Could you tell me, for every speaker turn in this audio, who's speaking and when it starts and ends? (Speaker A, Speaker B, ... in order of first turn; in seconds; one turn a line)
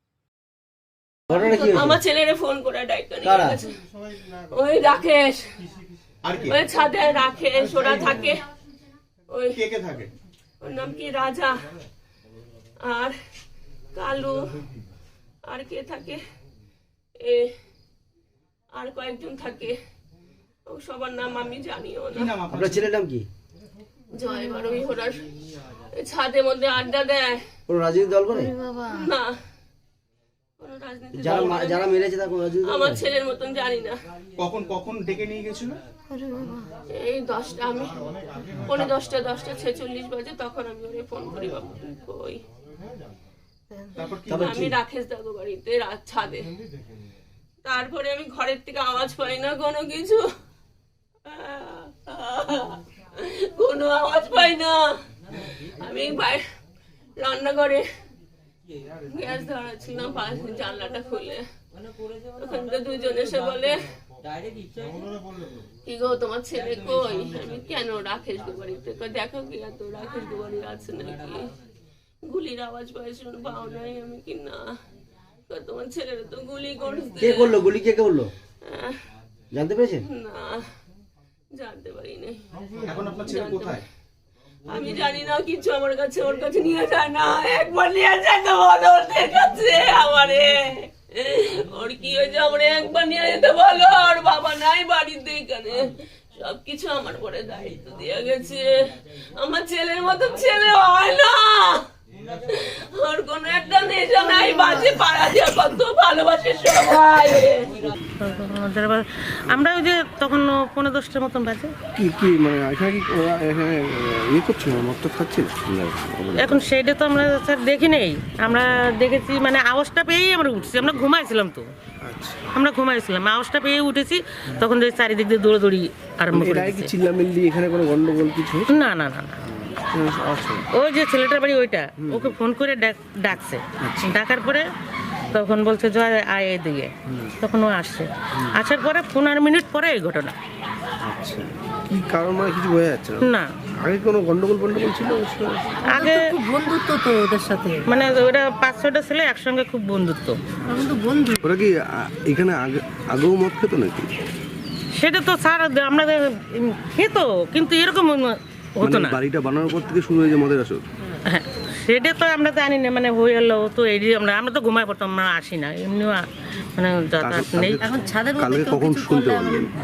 Speaker A: 1.3-2.0
Speaker B: 1.6-3.7
Speaker A: 3.2-3.6
Speaker B: 4.5-5.4
Speaker C: 6.2-6.6
Speaker B: 6.5-8.4
Speaker C: 7.7-8.2
Speaker B: 9.3-9.6
Speaker C: 9.6-10.1
Speaker B: 10.6-11.6
Speaker B: 12.8-13.2
Speaker B: 13.9-14.4
Speaker B: 15.5-16.2
Speaker B: 17.2-17.5
Speaker B: 18.7-19.8
Speaker B: 20.7-22.3
Speaker C: 22.1-22.8
Speaker A: 22.5-23.3
Speaker B: 24.1-25.3
Speaker B: 26.0-27.4
Speaker A: 27.7-28.6
Speaker B: 29.0-29.3
Speaker B: 30.6-31.8
Speaker A: 31.1-33.0
Speaker B: 32.7-33.9
Speaker C: 34.4-35.8
Speaker B: 37.0-38.0
Speaker C: 38.7-39.0
Speaker B: 38.7-42.4
Speaker C: 44.0-44.6
Speaker A: 44.3-44.8
Speaker B: 44.4-46.5
Speaker B: 47.6-50.2
Speaker B: 51.3-54.8
Speaker B: 55.8-56.4
Speaker B: 57.2-57.8
Speaker B: 59.1-61.4
Speaker B: 62.4-63.8
Speaker B: 65.8-71.5
Speaker B: 72.3-74.6
Speaker B: 75.5-77.6
Speaker A: 77.2-78.3
Speaker B: 78.7-79.0
Speaker A: 79.5-80.1
Speaker B: 80.1-80.7
Speaker B: 81.5-82.4
Speaker C: 82.8-83.8
Speaker B: 83.3-83.8
Speaker B: 84.7-98.7
Speaker B: 99.4-101.8
Speaker B: 103.0-107.6
Speaker D: 108.2-111.7
Speaker E: 112.0-116.7
Speaker D: 116.4-121.7
Speaker E: 122.0-122.5
Speaker D: 122.5-126.9
Speaker E: 126.3-128.7
Speaker D: 128.7-129.4
Speaker E: 129.7-130.6
Speaker D: 130.8-134.7
Speaker E: 133.8-134.2
Speaker D: 135.3-140.3
Speaker E: 141.0-143.3
Speaker E: 143.8-145.8
Speaker D: 145.8-146.2
Speaker F: 145.9-147.8
Speaker D: 147.9-150.4
Speaker F: 150.7-151.4
Speaker E: 151.4-154.1
Speaker D: 155.0-159.2
Speaker E: 158.8-160.8
Speaker D: 161.2-166.2
Speaker D: 166.8-167.8
Speaker E: 167.2-169.7
Speaker F: 167.8-169.6